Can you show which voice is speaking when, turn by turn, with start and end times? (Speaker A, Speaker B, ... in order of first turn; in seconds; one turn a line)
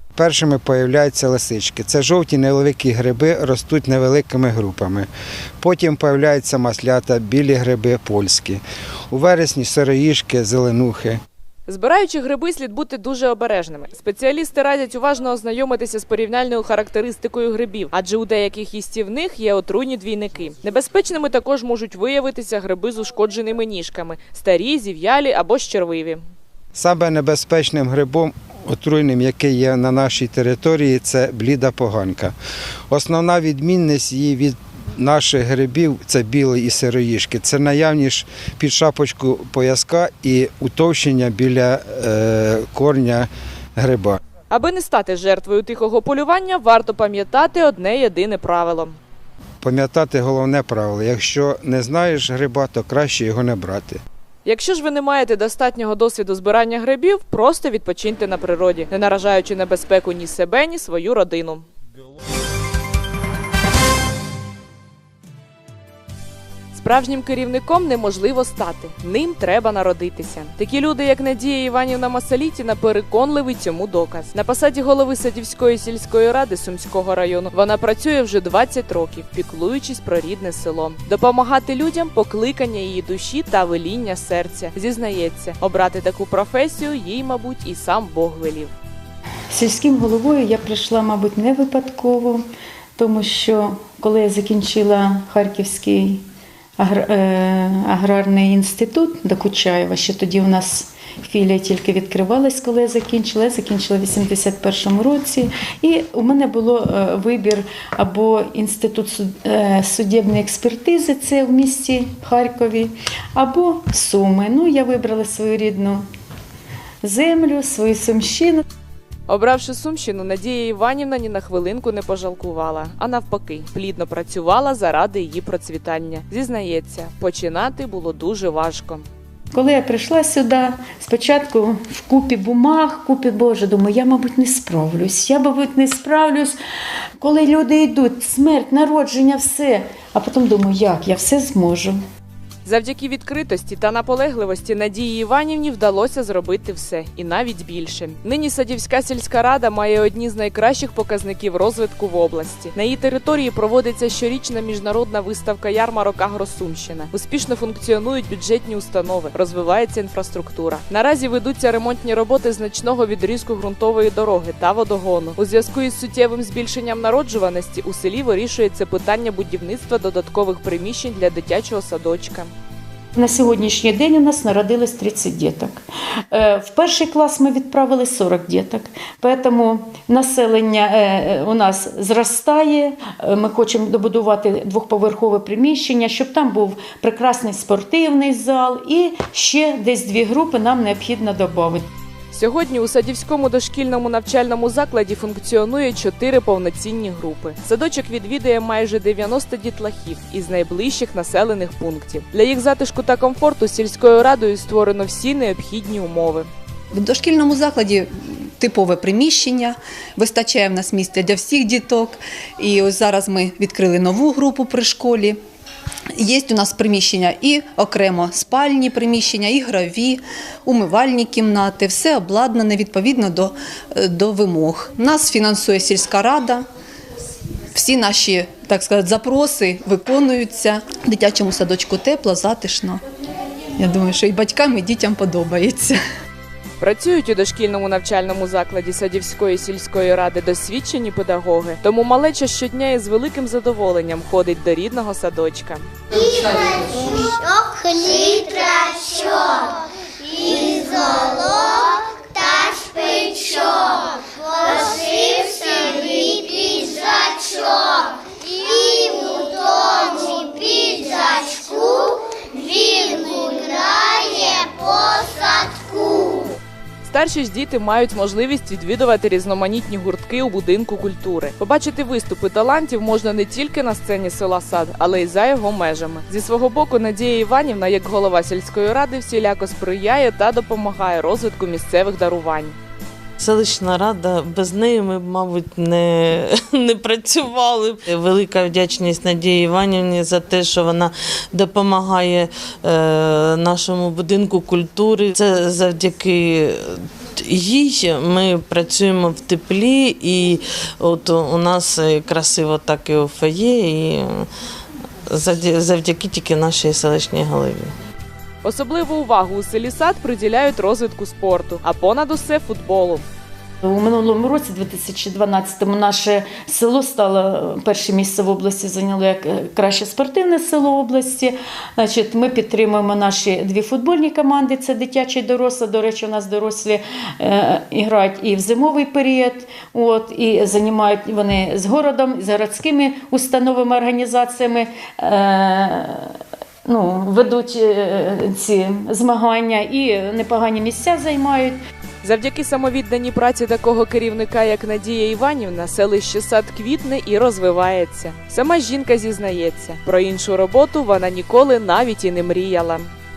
Speaker A: 0.1-5.1
Speaker A: 5.6-11.2
Speaker B: 11.7-26.2
Speaker A: 26.7-32.3
Speaker A: 32.9-44.2
Speaker B: 44.5-49.0
Speaker A: 49.6-54.0
Speaker B: 54.4-61.7
Speaker B: 66.7-88.7
Speaker C: 89.5-92.4
Speaker C: 93.0-96.2
Speaker C: 96.8-116.0
Speaker C: 117.0-118.6
Speaker B: 119.3-129.1
Speaker C: 129.5-136.6
Speaker C: 137.2-142.0
Speaker B: 142.6-172.5
Speaker C: 173.1-191.8
Speaker B: 192.3-206.5
Speaker D: 206.9-215.4
Speaker D: 216.1-226.6
Speaker D: 227.7-233.0
Speaker D: 233.8-236.0
Speaker B: 236.8-245.9
Speaker E: 246.2-249.7
Speaker E: 250.3-266.5
Speaker B: 267.0-282.8
Speaker F: 283.4-304.5
Speaker F: 305.3-307.9
Speaker B: 308.6-313.2
Speaker C: 313.8-336.3
Speaker C: 336.9-341.8
Speaker B: 342.2-353.1